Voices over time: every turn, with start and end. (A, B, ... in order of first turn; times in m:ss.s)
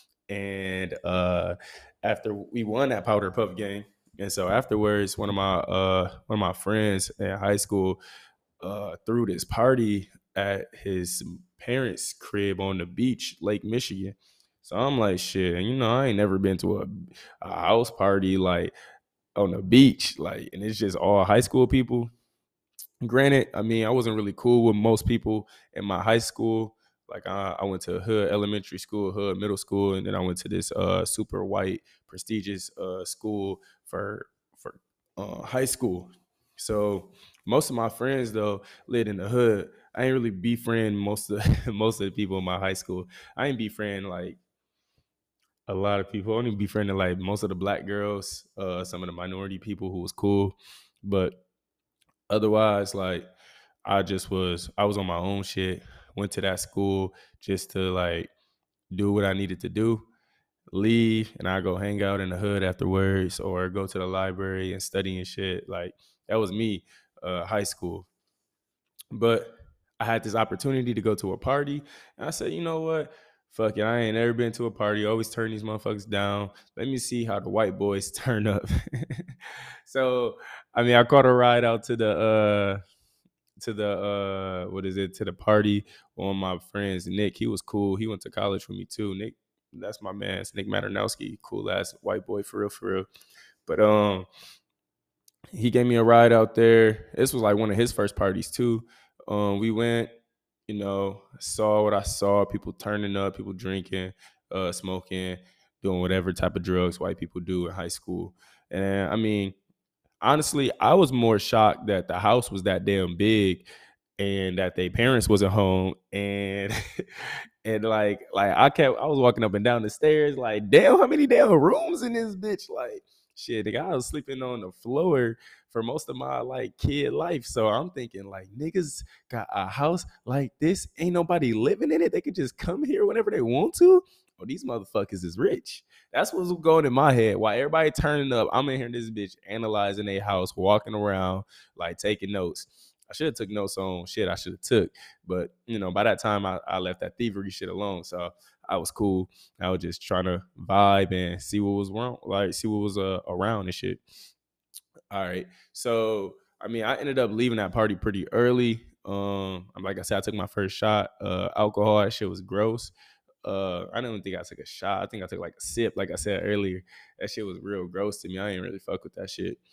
0:00.3-0:08.0 A
0:08.6-0:18.7 A
0:19.4-0:22.1 A
0:23.0-0:44.4 A
0:45.7-0:51.4 A
0:52.3-0:53.3 A
0:53.8-0:58.3 A
0:58.9-1:00.0 A
1:00.7-1:08.1 A
1:09.1-1:19.2 A
1:19.8-1:22.8 A
1:23.6-1:33.0 A
1:33.6-1:34.3 A
1:35.5-1:40.1 A
1:40.7-1:49.5 A
1:50.2-1:56.7 A
1:57.6-2:34.0 A
2:35.1-2:42.9 A
2:43.4-2:49.6 A